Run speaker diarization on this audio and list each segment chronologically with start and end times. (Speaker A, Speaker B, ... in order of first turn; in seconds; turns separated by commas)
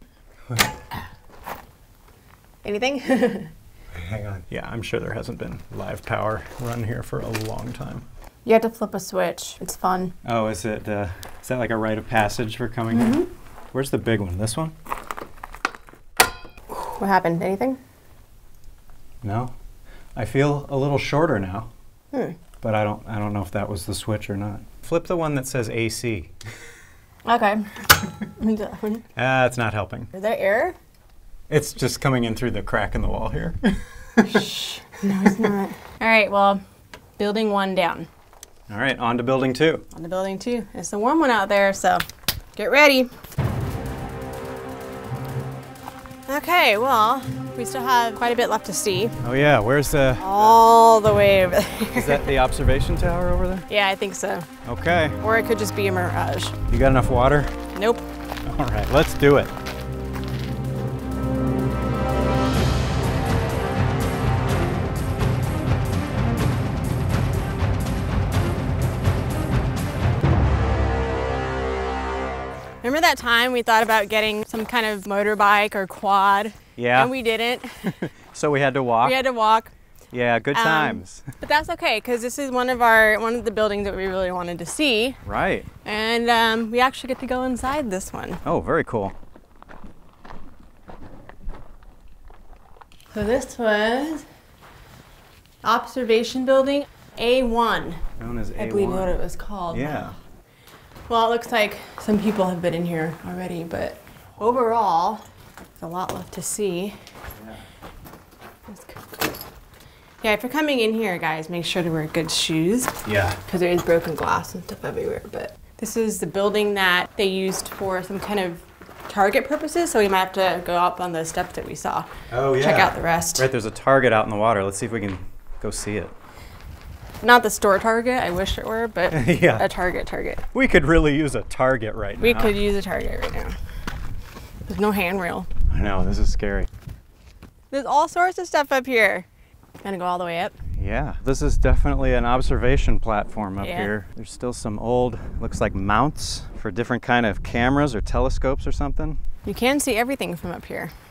Speaker A: 0.5-0.8, Speaker B: 2.6-3.5, Speaker A: 3.9-8.1, Speaker B: 8.4-10.2, Speaker A: 10.2-14.7, Speaker B: 12.9-13.3, Speaker B: 16.7-17.8, Speaker A: 19.2-19.5, Speaker A: 20.2-21.7, Speaker B: 22.1-22.4, Speaker A: 22.6-26.3, Speaker B: 27.2-29.1, Speaker A: 29.2-30.1, Speaker B: 30.1-30.8, Speaker A: 31.5-34.4, Speaker B: 34.2-36.6, Speaker B: 37.2-38.1, Speaker A: 38.7-39.9, Speaker B: 39.9-42.0, Speaker B: 42.6-43.1, Speaker B: 46.3-49.2, Speaker A: 49.2-50.6, Speaker B: 50.2-52.3, Speaker A: 51.9-53.7, Speaker B: 53.7-54.5, Speaker A: 54.6-55.2, Speaker B: 55.2-56.6, Speaker A: 56.7-57.6, Speaker B: 57.8-58.1, Speaker A: 58.5-59.5, Speaker B: 72.8-78.0, Speaker A: 76.8-77.1, Speaker A: 77.8-79.2, Speaker B: 79.0-79.7, Speaker A: 80.1-81.3, Speaker B: 80.5-85.2, Speaker A: 85.2-85.7, Speaker B: 85.8-88.4, Speaker A: 88.5-89.1, Speaker B: 93.1-94.3, Speaker B: 95.6-98.0, Speaker A: 98.2-100.2, Speaker B: 98.6-100.2, Speaker B: 101.1-105.2, Speaker B: 105.8-107.0, Speaker A: 107.4-107.6, Speaker B: 108.7-109.2, Speaker B: 110.2-123.5, Speaker A: 113.0-113.4, Speaker A: 122.3-126.2, Speaker B: 127.2-130.4, Speaker A: 129.1-129.7, Speaker A: 130.5-132.5, Speaker B: 132.2-133.6, Speaker B: 134.7-135.5, Speaker A: 135.7-136.7, Speaker B: 137.7-139.3, Speaker B: 139.8-140.6, Speaker A: 140.8-149.2, Speaker B: 143.6-143.9, Speaker B: 149.4-150.9